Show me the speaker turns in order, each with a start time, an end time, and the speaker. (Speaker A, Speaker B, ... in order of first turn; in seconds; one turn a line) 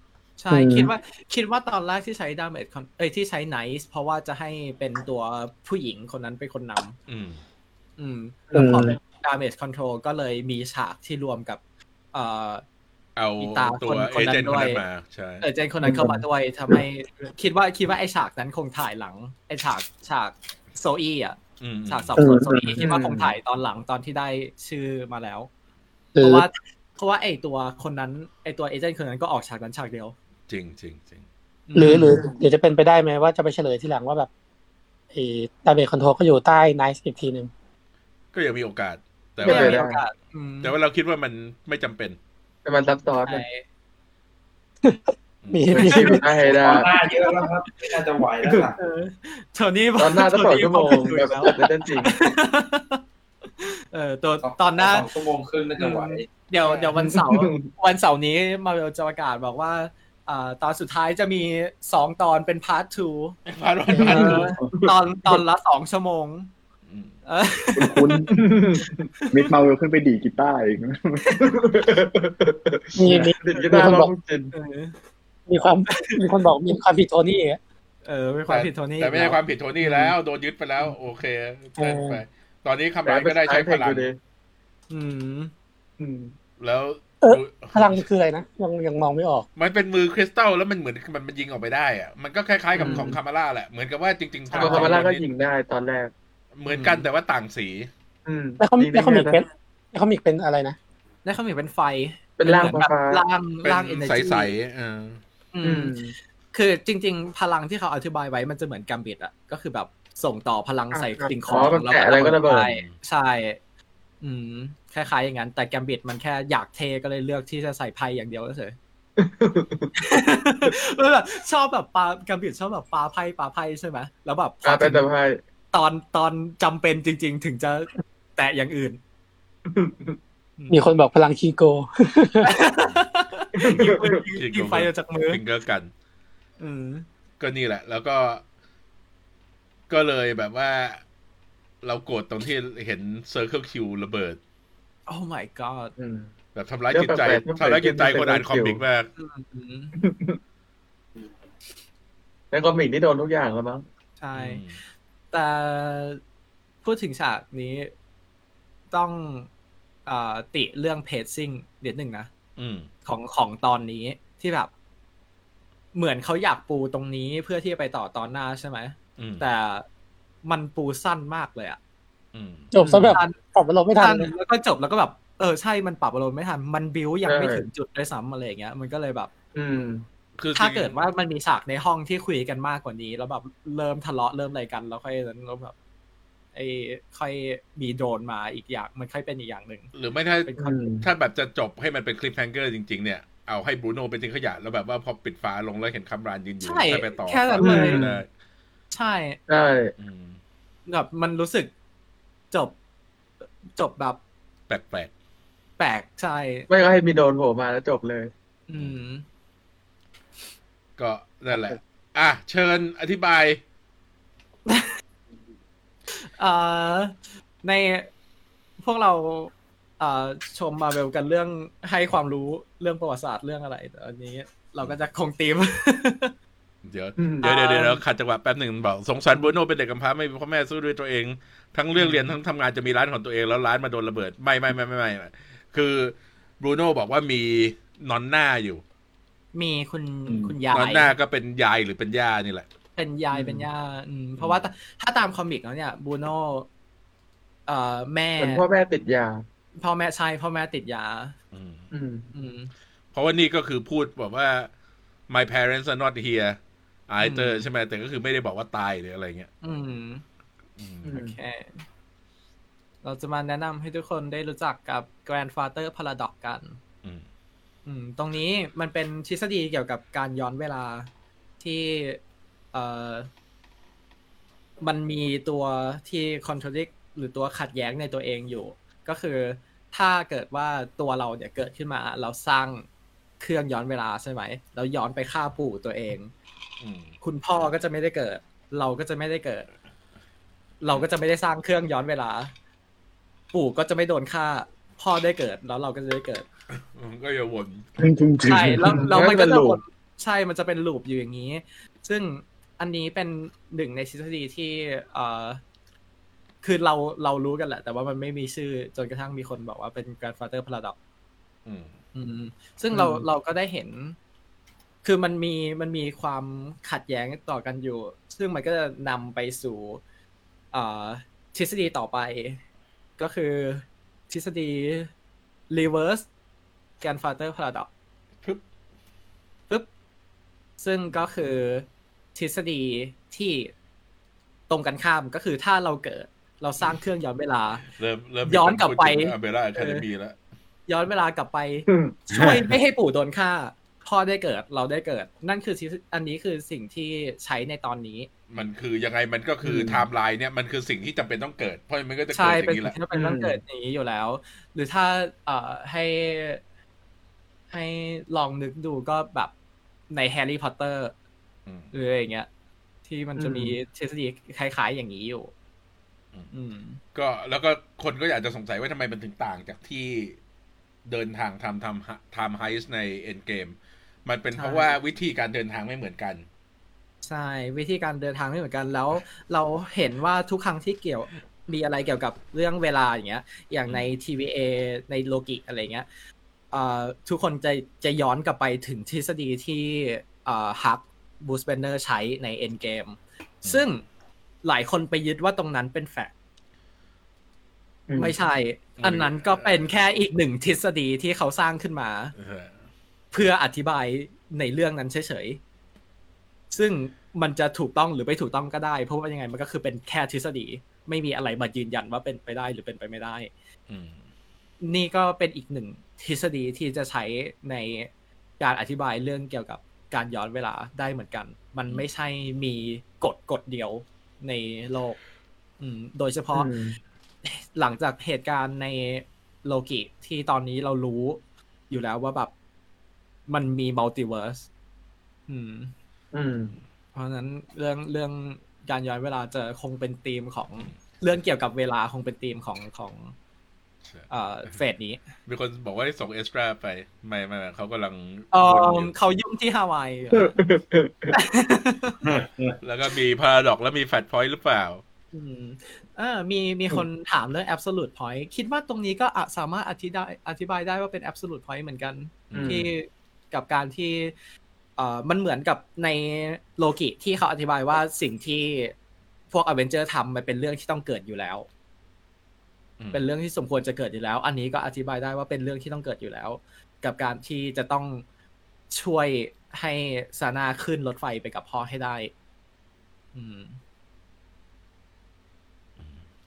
Speaker A: 0.4-7.0
Speaker B: 0.5-0.9
Speaker C: 7.1-7.4
Speaker A: 8.0-11.6
Speaker B: 8.5-9.0
Speaker A: 12.1-12.6
Speaker C: 13.2-15.4
Speaker A: 13.4-14.8
Speaker A: 15.4-25.5
Speaker B: 15.8-16.2
Speaker C: 21.6-22.1
Speaker B: 22.2-22.8
Speaker D: 22.8-23.3
Speaker B: 26.1-26.4
Speaker A: 26.2-30.1
Speaker C: 30.5-31.2
Speaker A: 31.7-32.1
Speaker B: 31.7-34.3
Speaker B: 35.1-37.5
Speaker C: 38.3-39.9
Speaker D: 39.4-40.0
Speaker A: 39.4-40.7
Speaker C: 40.6-42.2
Speaker D: 42.6-43.4
Speaker A: 43.3-43.6
Speaker B: 44.8-46.2
Speaker C: 45.4-45.8
Speaker D: 45.7-46.9
Speaker E: 46.4-48.8
Speaker A: 47.2-47.9
Speaker A: 48.8-53.0
Speaker D: 50.0-52.2
Speaker A: 53.6-55.1
Speaker E: 54.4-56.3
Speaker A: 55.8-63.4
Speaker D: 57.0-57.7
Speaker C: 63.5-64.5
Speaker B: 63.9-64.5
Speaker A: 64.0-66.5
Speaker C: 66.9-67.1
Speaker A: 67.2-68.3
Speaker F: 67.8-68.4
Speaker D: 68.3-68.9
Speaker F: 69.3-71.2
Speaker D: 71.4-74.5
Speaker B: 73.0-74.1
Speaker A: 73.1-73.7
Speaker A: 74.5-75.0
Speaker B: 75.5-77.6
Speaker A: 78.0-80.1
Speaker C: 78.5-84.1
Speaker B: 81.8-82.2
Speaker D: 83.0-84.2
Speaker A: 84.9-85.5
Speaker D: 86.0-86.3
Speaker C: 86.6-88.0
Speaker B: 87.2-89.5
Speaker C: 89.5-95.2
Speaker A: 92.8-93.1
Speaker D: 92.8-93.2
Speaker A: 94.5-95.0
Speaker D: 94.6-96.1
Speaker C: 96.5-97.9
Speaker A: 96.7-97.1
Speaker D: 98.2-99.4
Speaker B: 98.6-100.8
Speaker A: 101.2-104.5
Speaker D: 102.4-103.2
Speaker C: 103.6-105.2
Speaker A: 105.5-113.6
Speaker D: 105.6-106.1
Speaker B: 110.9-111.3
Speaker D: 111.5-112.7
Speaker C: 112.7-112.9
Speaker A: 114.2-118.8
Speaker D: 119.2-119.9
Speaker A: 120.0-125.0
Speaker D: 124.6-125.4
Speaker A: 125.7-129.0
Speaker D: 129.7-130.2
Speaker A: 130.6-130.9
Speaker B: 130.7-132.5
Speaker A: 132.4-135.4
Speaker D: 133.6-134.2
Speaker C: 134.3-135.9
Speaker A: 136.6-137.1
Speaker C: 137.4-138.4
Speaker C: 139.9-141.0
Speaker C: 141.8-144.4
Speaker A: 145.1-145.9
Speaker D: 146.0-146.3
Speaker C: 146.5-149.1
Speaker D: 146.9-148.8
Speaker A: 149.2-150.0
Speaker D: 150.0-150.4
Speaker D: 152.5-153.8
Speaker A: 154.2-156.2
Speaker C: 154.3-154.8
Speaker A: 156.8-157.9
Speaker A: 158.9-159.5
Speaker A: 160.1-162.3
Speaker C: 162.6-162.9
Speaker A: 163.0-164.7
Speaker A: 165.9-169.8
Speaker C: 169.2-169.4
Speaker A: 170.4-171.8
Speaker C: 172.3-172.7
Speaker B: 172.7-174.3
Speaker A: 172.8-173.4
Speaker A: 174.0-179.3
Speaker D: 177.2-177.7
Speaker D: 179.5-180.1
Speaker C: 180.4-180.9
Speaker A: 180.6-185.7
Speaker A: 186.5-189.9
Speaker C: 189.9-198.3
Speaker A: 190.5-190.8
Speaker D: 190.6-191.1
Speaker A: 196.6-198.1
Speaker D: 197.6-198.2
Speaker A: 198.9-199.4
Speaker D: 199.5-199.9
Speaker C: 200.0-200.4
Speaker A: 200.9-201.7
Speaker A: 203.4-204.2
Speaker C: 204.7-205.1
Speaker A: 205.8-206.7
Speaker D: 206.7-208.3
Speaker A: 208.7-209.2
Speaker C: 208.7-209.0
Speaker C: 211.0-213.6
Speaker A: 216.1-218.1
Speaker A: 218.8-226.3
Speaker C: 226.8-238.8
Speaker D: 227.2-227.5
Speaker A: 227.4-228.0
Speaker A: 231.9-232.3
Speaker A: 239.5-241.1
Speaker D: 240.3-240.6
Speaker C: 240.7-242.7
Speaker A: 243.0-246.7
Speaker D: 243.3-243.7
Speaker A: 247.7-248.6
Speaker D: 248.4-249.4
Speaker A: 249.8-251.3
Speaker C: 251.5-251.8
Speaker D: 251.9-252.3
Speaker A: 252.3-252.7
Speaker C: 253.1-254.7
Speaker C: 255.3-259.5
Speaker A: 257.2-257.7
Speaker A: 259.6-260.2
Speaker C: 260.8-261.2
Speaker D: 261.1-261.4
Speaker A: 261.1-261.8
Speaker A: 263.0-266.8
Speaker A: 267.8-271.1
Speaker A: 271.6-272.2
Speaker A: 272.7-273.3
Speaker A: 274.8-282.9
Speaker A: 283.4-286.3
Speaker C: 286.8-287.6
Speaker A: 287.2-289.7
Speaker A: 290.8-292.5
Speaker A: 293.5-296.4
Speaker C: 296.8-297.8
Speaker F: 298.0-299.1
Speaker A: 298.4-305.6
Speaker D: 298.9-299.8
Speaker A: 306.6-310.9
Speaker C: 311.6-311.9
Speaker A: 312.1-314.2
Speaker D: 312.9-313.2
Speaker A: 315.0-320.0
Speaker A: 320.7-322.6
Speaker A: 323.2-325.1
Speaker A: 325.7-326.2
Speaker A: 327.0-327.9
Speaker A: 330.8-333.7
Speaker A: 334.7-337.8
Speaker C: 337.8-340.4
Speaker A: 338.4-340.0
Speaker A: 340.9-348.3
Speaker D: 341.9-342.2
Speaker E: 342.3-342.7
Speaker C: 348.5-352.9
Speaker D: 349.6-350.0
Speaker A: 352.3-356.6
Speaker D: 353.1-353.6
Speaker A: 357.7-359.5
Speaker A: 360.1-361.1
Speaker A: 361.9-362.5
Speaker A: 363.1-365.5
Speaker D: 363.4-363.8
Speaker A: 366.5-367.0
Speaker C: 367.1-370.4
Speaker C: 371.1-376.4
Speaker A: 374.5-374.9
Speaker A: 377.2-386.1
Speaker A: 386.7-394.0
Speaker A: 394.6-396.3
Speaker D: 398.1-398.4
Speaker A: 398.1-402.3
Speaker C: 399.0-399.9
Speaker C: 402.4-402.7
Speaker A: 403.3-405.6
Speaker A: 406.7-413.5
Speaker C: 413.9-414.2
Speaker A: 414.8-425.2
Speaker A: 425.8-426.7
Speaker D: 426.5-427.0
Speaker A: 427.4-432.5
Speaker A: 433.5-434.7
Speaker A: 435.5-435.9
Speaker D: 436.3-436.8
Speaker A: 437.1-443.3
Speaker C: 444.1-444.8
Speaker A: 444.3-445.2
Speaker C: 445.4-449.1
Speaker A: 448.5-450.5
Speaker D: 450.3-451.3
Speaker A: 451.3-452.2
Speaker E: 452.2-452.8
Speaker C: 452.8-455.0
Speaker A: 455.3-464.3
Speaker C: 462.5-462.8
Speaker D: 462.5-462.9
Speaker A: 465.0-468.9
Speaker A: 469.5-471.7
Speaker C: 473.0-473.2
Speaker A: 473.1-478.2
Speaker A: 478.9-482.3
Speaker A: 483.3-483.8